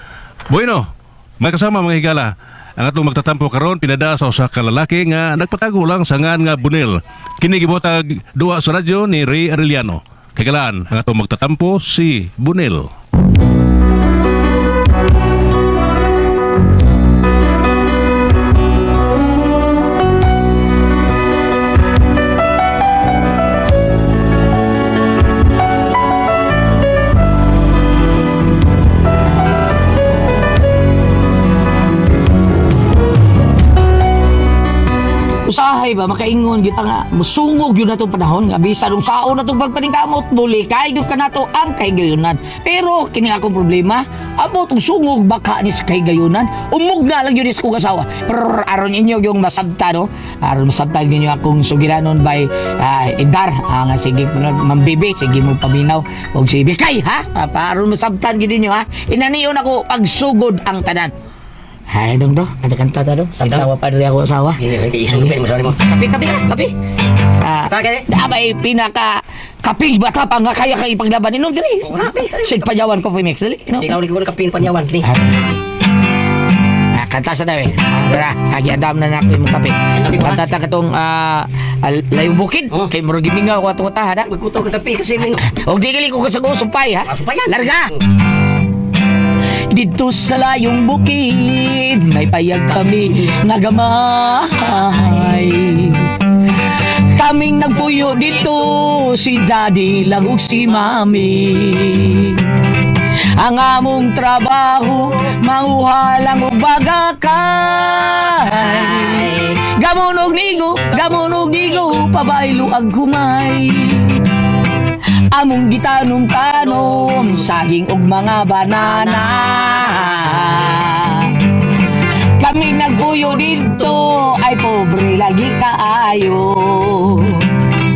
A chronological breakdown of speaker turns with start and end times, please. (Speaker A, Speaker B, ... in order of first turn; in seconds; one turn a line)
Speaker A: 0.5-0.8
Speaker A: 1.4-12.9
Speaker B: 35.4-61.1
Speaker B: 61.9-66.7
Speaker C: 64.8-65.7
Speaker B: 67.4-74.0
Speaker C: 71.9-72.4
Speaker C: 73.8-75.0
Speaker B: 75.0-75.4
Speaker B: 76.9-84.4
Speaker C: 80.1-80.3
Speaker C: 84.3-85.3
Speaker B: 85.3-88.0
Speaker B: 89.7-96.0
Speaker B: 96.7-102.4
Speaker B: 103.3-114.3
Speaker B: 115.3-121.3
Speaker B: 122.4-127.5